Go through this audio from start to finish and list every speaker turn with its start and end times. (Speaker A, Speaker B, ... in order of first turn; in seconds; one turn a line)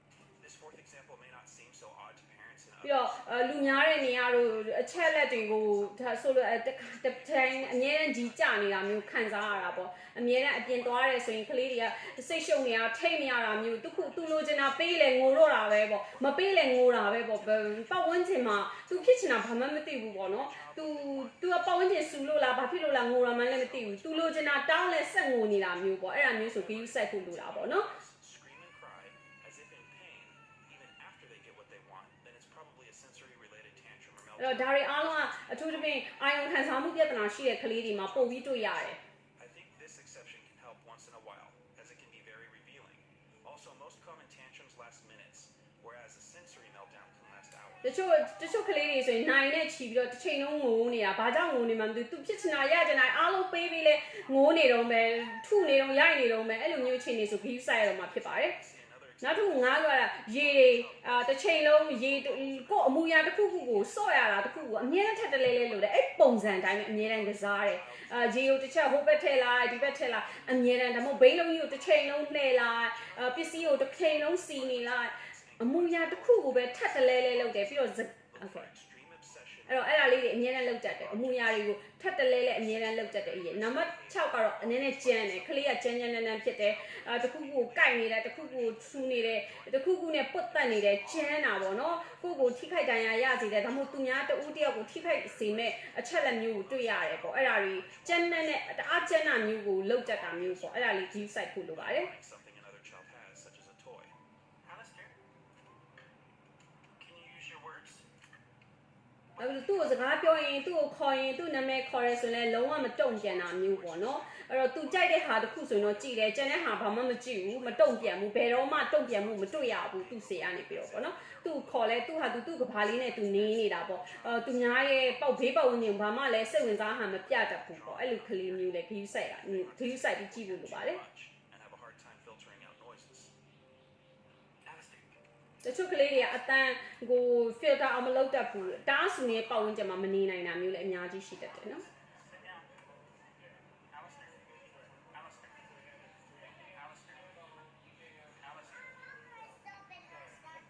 Speaker A: 0.4-6.2
Speaker B: 2.8-27.9
Speaker A: 7.0-9.9
Speaker A: 10.4-21.9
Speaker A: 23.2-36.1
Speaker B: 34.4-39.0
Speaker A: 37.7-47.9
Speaker B: 47.8-58.5
Speaker A: 57.8-65.6
Speaker B: 59.2-78.7
Speaker A: 66.5-105.2
Speaker B: 79.7-102.1
Speaker A: 106.9-108.0
Speaker A: 109.4-110.7
Speaker B: 109.4-131.0
Speaker A: 111.9-133.3
Speaker A: 134.6-135.1
Speaker B: 135.6-141.8
Speaker A: 138.2-139.8
Speaker A: 145.2-145.5